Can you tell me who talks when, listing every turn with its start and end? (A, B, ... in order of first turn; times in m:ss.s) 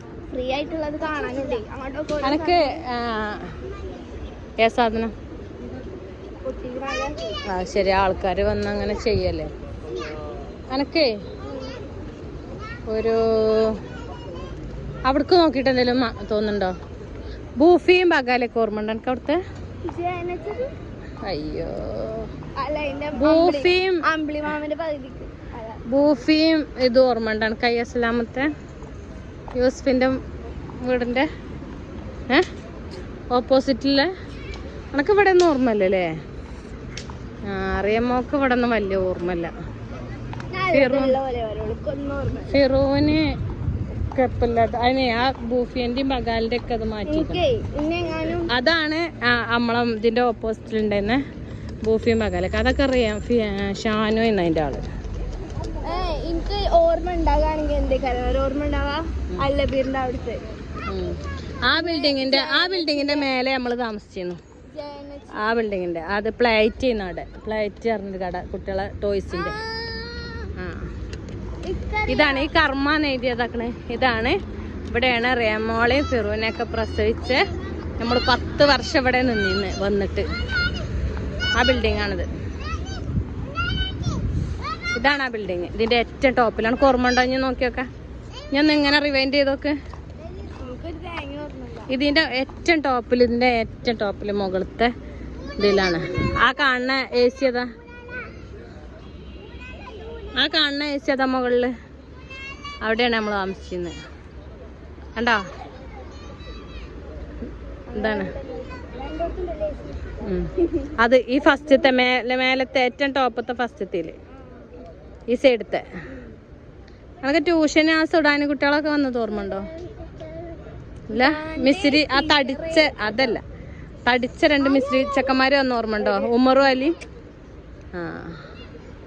0:00.3-0:02.8 A
0:02.2-0:03.5 B
0:04.6-0:05.1 B
0:06.4-0:07.4 A
0:07.5-0:09.5 B
0:10.7-0:11.1 B
0:11.4-0:11.8 A
0:12.9-0:13.8 B
0:15.0-0:16.7 B
0:17.6-0:19.4 B
0:19.8-0:20.7 A
0:21.2-0:22.3 B
0:22.6-0:25.8 A
0:23.2-0:24.0 B
0:25.9-0:28.5 B
0:29.5-0:30.2 B
0:30.8-0:31.3 B
0:33.3-0:34.1 B
0:34.9-0:36.1 B
0:37.4-0:39.5 B
0:40.5-0:42.6 A
0:40.7-0:41.2 B
0:42.5-0:43.2 B
0:44.1-0:47.4 B
0:47.1-0:48.5 A
0:48.5-0:51.2 B
0:51.8-0:54.9 B
0:55.8-1:00.4 A
1:00.9-1:04.4 B
1:01.7-1:03.3 A
1:04.7-1:05.5 A
1:05.4-1:09.6 B
1:09.3-1:10.5 A
1:10.6-1:10.9 B
1:11.6-1:12.5 A
1:12.1-1:14.4 B
1:14.9-1:17.4 B
1:18.0-1:20.2 B
1:21.5-1:22.3 B
1:24.9-1:27.9 B
1:28.5-1:29.8 B
1:30.4-1:31.9 A
1:31.9-1:34.9 B
1:35.6-1:37.7 B
1:40.3-1:41.7 B
1:42.8-1:43.9 B
1:45.2-1:45.4 B
1:47.9-1:50.9 A
1:47.9-1:48.3 B
1:50.2-1:54.1 B
1:55.3-1:55.8 B
1:57.2-1:59.7 B
2:01.1-2:03.4 B
2:01.1-2:02.9 A
2:04.0-2:07.0 B
2:04.8-2:05.1 A
2:06.0-2:06.3 A
2:07.9-2:08.4 B